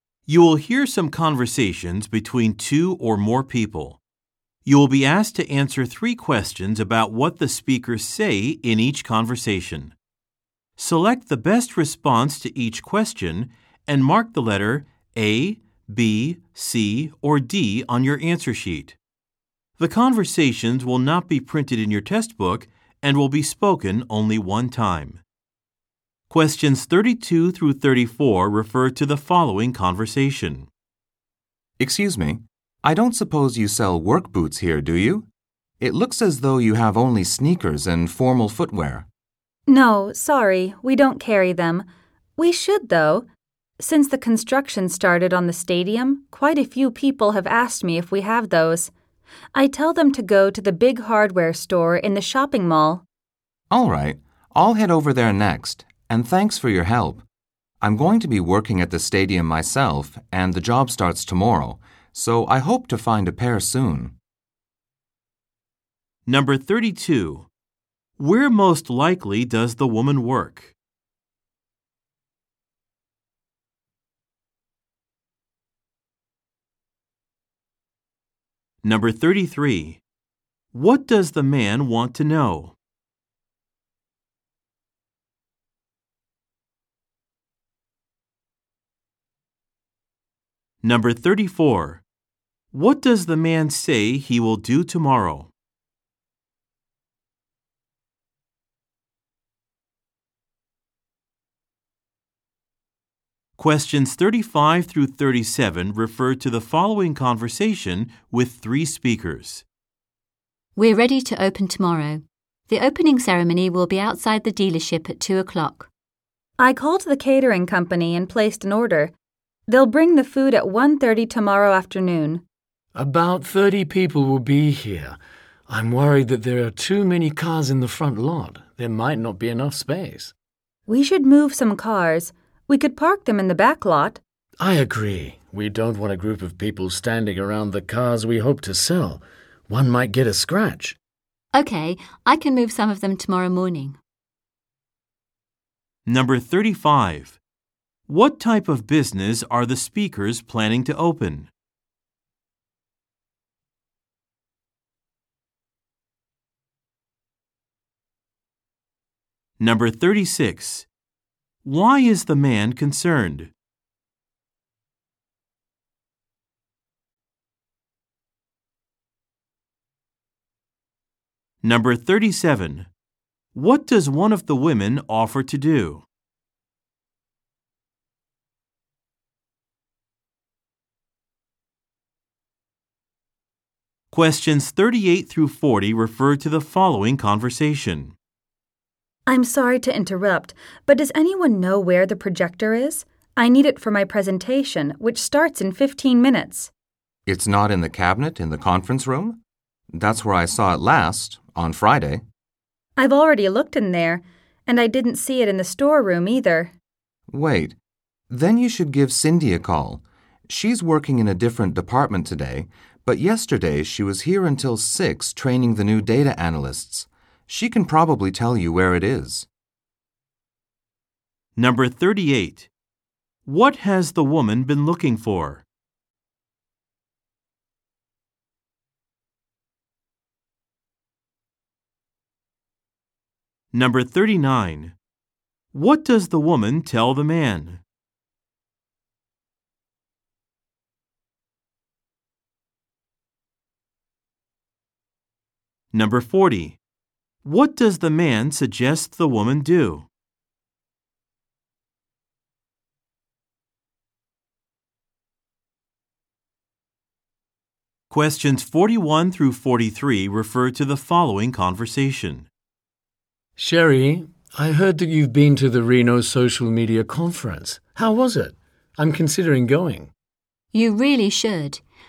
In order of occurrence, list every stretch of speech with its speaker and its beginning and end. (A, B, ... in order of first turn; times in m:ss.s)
0:00.2-0:04.0 A
0:04.6-0:09.9 A
0:10.8-0:19.0 A
0:19.8-0:25.2 A
0:26.3-0:30.7 A
0:31.8-0:35.3 B
0:35.8-0:39.1 B
0:39.7-0:41.8 C
0:42.4-0:43.2 C
0:43.8-0:48.9 C
0:49.5-0:53.0 C
0:53.7-0:57.2 B
0:57.8-1:04.1 B
1:06.2-1:07.5 A
1:08.2-1:10.7 A
1:18.8-1:20.0 A
1:20.7-1:22.7 A
1:30.8-1:32.0 A
1:32.7-1:35.5 A
1:43.6-1:49.6 A
1:50.8-1:55.9 D
1:56.6-1:59.1 C
1:59.7-2:02.4 C
2:02.9-2:10.3 E
2:10.9-2:14.2 C
2:14.6-2:21.0 E
2:21.5-2:24.0 D
2:26.0-2:27.4 A
2:28.1-2:31.5 A
2:39.6-2:40.9 A
2:41.6-2:43.5 A
2:51.6-2:52.9 A
2:53.5-2:56.0 A
3:04.1-3:08.1 A
3:09.3-3:16.7 C
3:17.2-3:19.4 B
3:19.9-3:22.2 B
3:23.0-3:26.7 C
3:27.3-3:27.8 B
3:28.3-3:39.5 B
3:41.6-3:42.7 A
3:43.4-3:45.6 A
3:53.7-3:54.9 A
3:55.7-3:57.8 A
4:05.9-4:06.8 A
4:07.4-4:10.1 A
4:18.1-4:22.5 A
4:23.6-4:30.1 E
4:30.7-4:31.8 D